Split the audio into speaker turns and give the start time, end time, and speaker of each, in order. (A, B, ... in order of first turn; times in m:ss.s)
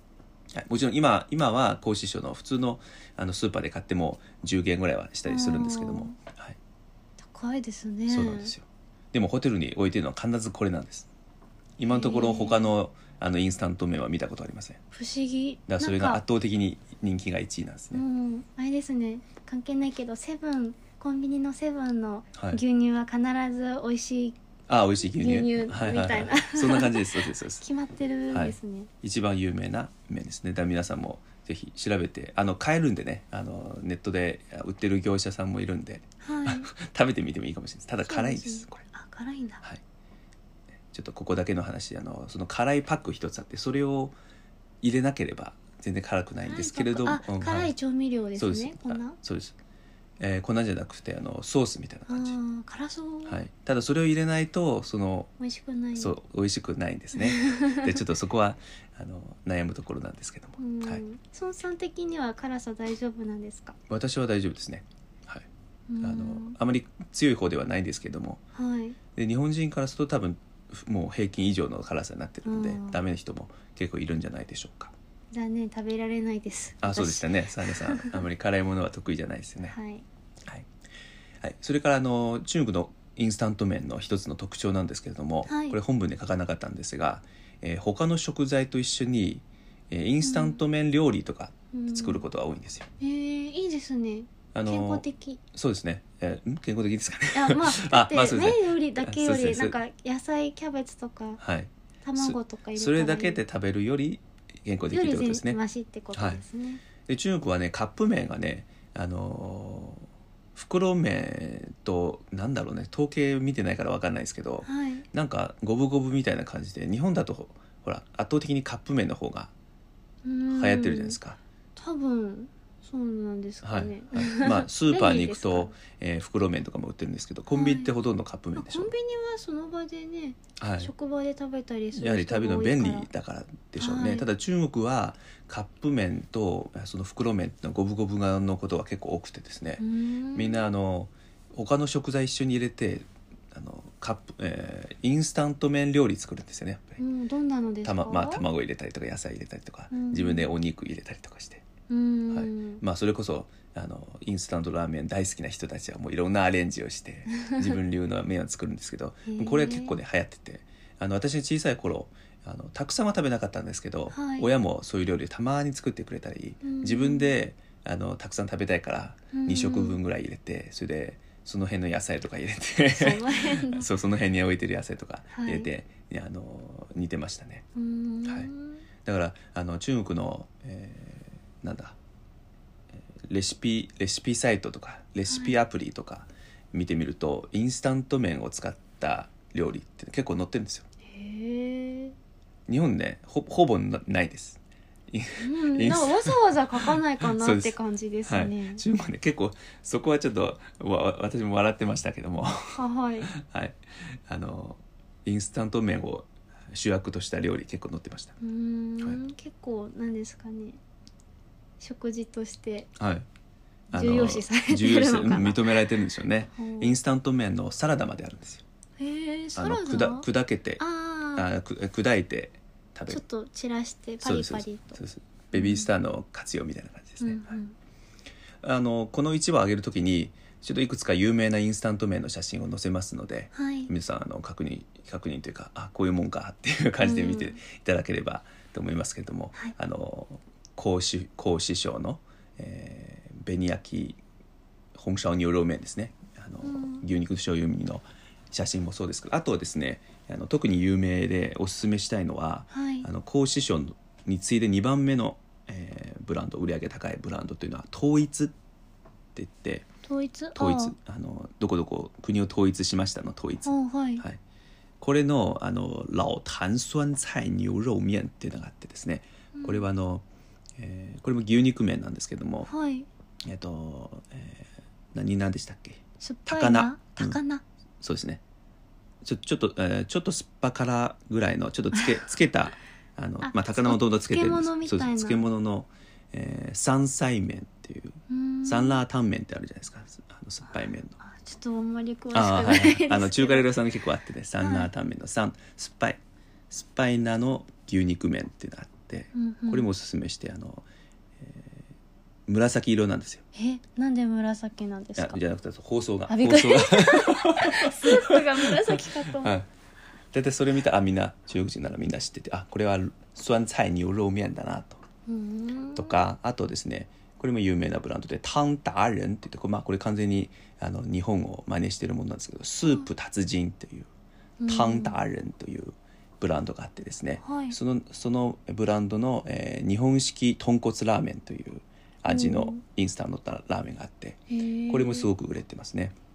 0:00.5-0:06.6 A
0:05.2-0:06.2 B
0:07.2-0:08.5 B
0:08.1-0:11.1 A
0:11.8-0:14.8 A
0:11.8-0:12.7 B
0:14.9-0:16.2 B
0:15.7-0:18.0 A
0:17.9-0:24.4 B
0:22.4-0:22.6 A
0:24.7-0:27.6 A
0:25.1-0:27.1 B
0:27.6-0:28.9 B
0:28.3-0:38.8 A
0:36.2-0:36.7 B
0:38.0-0:39.6 B
0:40.9-0:44.1 A
0:44.8-0:47.7 A
0:46.4-0:49.2 B
0:48.4-0:49.6 A
0:50.2-0:52.4 A
0:52.1-0:53.4 B
0:53.2-0:55.3 A
0:55.4-0:56.1 B
0:56.0-1:01.0 A
0:57.1-0:58.0 B
1:00.6-1:03.8 B
1:03.9-1:05.4 A
1:05.9-1:06.6 B
1:06.0-1:08.4 A
1:08.5-1:09.0 B
1:09.1-1:14.9 A
1:12.4-1:13.0 B
1:15.3-1:18.2 B
1:16.8-1:19.7 A
1:19.6-1:20.0 B
1:21.4-1:32.9 A
1:25.5-1:25.8 B
1:30.2-1:30.6 B
1:31.7-1:32.2 B
1:33.0-1:35.4 B
1:34.5-1:39.8 A
1:37.3-1:41.4 B
1:41.4-1:45.6 A
1:42.0-1:43.4 B
1:44.9-1:46.8 B
1:46.1-1:46.4 A
1:47.0-1:59.5 A
1:54.6-1:55.0 B
2:00.2-2:01.2 B
2:00.5-2:01.4 A
2:01.8-2:05.7 B
2:03.6-2:08.9 A
2:07.5-2:07.9 B
2:08.5-2:13.1 B
2:10.6-2:10.9 A
2:11.9-2:27.0 A
2:13.8-2:14.3 B
2:19.8-2:20.6 B
2:27.0-2:28.4 B
2:27.8-2:31.6 A
2:29.9-2:30.5 B
2:31.9-2:32.8 B
2:32.3-2:57.6 A
2:39.3-2:40.0 B
2:44.1-2:44.5 B
2:46.6-2:47.3 B
2:49.3-2:50.0 B
2:52.9-2:53.9 B
2:55.3-2:55.7 B
2:57.7-2:58.8 B
2:58.2-2:58.5 A
2:59.0-3:02.0 A
3:03.2-3:10.9 A
3:05.3-3:05.6 B
3:11.1-3:12.1 B
3:12.7-3:28.4 A
3:15.4-3:18.8 B
3:22.7-3:23.3 B
3:28.4-3:30.8 B
3:31.8-3:32.9 B
3:33.0-3:33.2 A
3:33.9-3:38.6 A
3:33.9-3:35.8 B
3:36.6-3:37.0 B
3:39.0-3:40.3 B
3:39.5-3:40.8 A
3:40.8-3:41.5 B
3:41.3-3:43.2 A
3:43.1-3:45.0 B
3:44.2-3:47.6 A
3:45.5-3:45.9 B
3:47.2-3:47.7 B
3:48.6-4:04.2 A
3:53.5-3:53.9 B
3:57.0-3:57.6 B
4:04.9-4:18.5 A
4:06.6-4:07.0 B
4:12.7-4:13.1 B
4:19.3-4:19.9 A
4:20.0-4:20.9 B
4:20.6-4:24.4 A
4:23.6-4:24.2 B
4:25.0-4:30.2 A
4:29.5-4:29.8 B
4:30.8-4:32.7 A
4:32.6-4:33.1 B
4:33.4-4:37.4 A
4:36.2-4:37.6 B
4:38.0-4:38.4 A
4:39.2-4:51.2 A
4:43.4-4:45.4 B
4:48.3-4:49.0 B
4:51.2-4:53.7 B
4:52.3-4:56.2 A
4:54.6-4:54.9 B
4:56.7-5:00.8 A
4:59.3-4:59.9 B
5:01.4-5:01.8 A
5:02.5-5:03.4 A
5:03.5-5:05.4 B
5:05.2-5:09.7 A
5:06.3-5:09.6 B
5:10.3-5:15.0 A
5:15.3-5:16.2 B
5:15.9-5:24.1 A
5:24.6-5:25.2 B
5:24.7-5:36.1 A
5:27.4-5:27.8 B
5:32.3-5:32.8 B
5:34.5-5:35.3 B